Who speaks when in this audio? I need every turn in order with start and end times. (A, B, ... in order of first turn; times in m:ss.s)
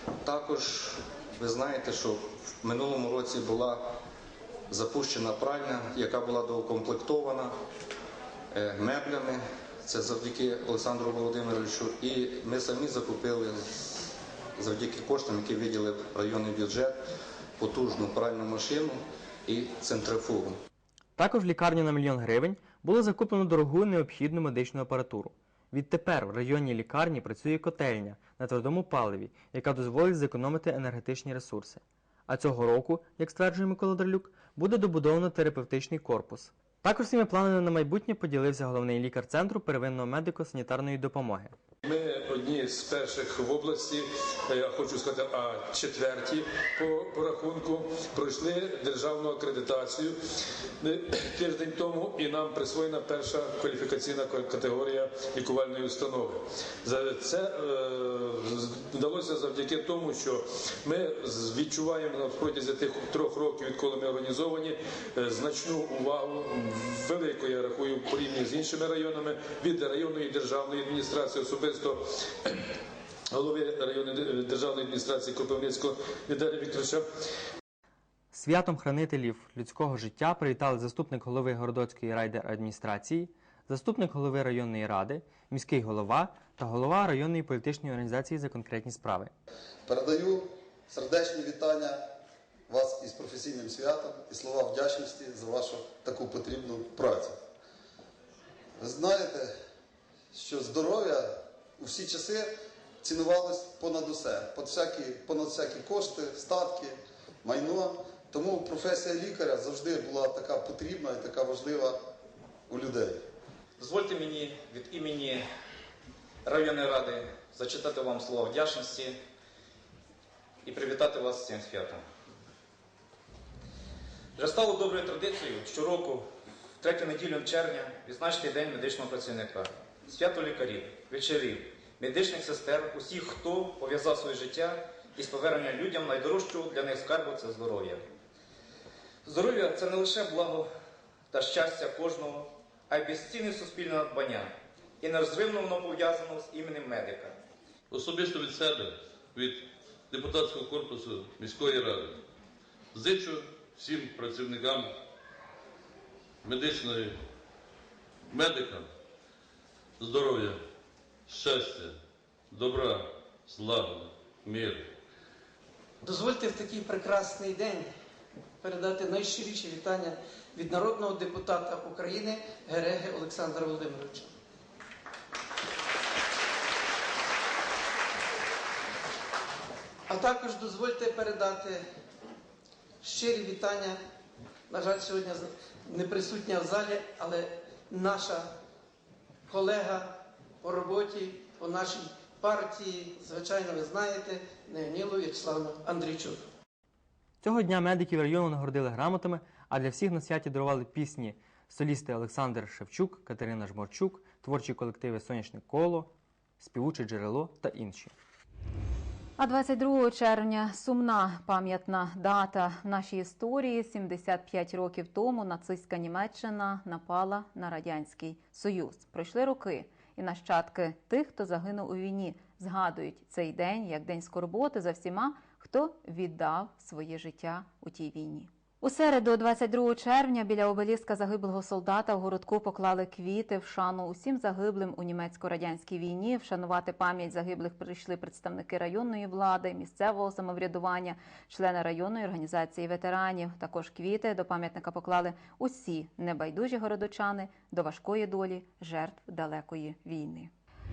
0:00.2-0:04.0 A
0:04.7-0:07.5 A
0:08.5-0:17.0 A
0:17.6-0:20.6 A
0:21.2-0:41.6 B
0:41.8-0:50.2 C
0:50.8-1:12.6 C
1:13.3-1:17.1 C
1:18.3-1:29.3 B
1:29.9-1:32.0 D
1:32.7-1:37.4 D
1:38.8-1:39.6 D
1:40.3-1:52.0 D
1:52.7-1:53.2 D
1:53.8-1:55.5 E
1:56.4-1:59.2 E
2:00.6-2:02.0 E
2:04.4-2:06.3 E
2:06.8-2:18.0 E
2:19.2-2:20.7 E
2:21.3-2:27.4 E
2:27.9-2:32.2 F
2:32.9-2:34.9 F
2:36.4-2:37.2 F
2:38.3-2:38.9 F
2:40.0-2:40.6 F
2:41.3-2:42.0 F
2:42.5-2:44.9 F
2:46.0-2:47.9 G
2:48.6-2:54.3 G
3:00.1-3:01.8 G
3:03.0-3:04.0 G
3:04.7-3:08.5 G
3:09.5-3:16.4 G
3:17.4-3:28.2 B
3:29.4-4:10.5 H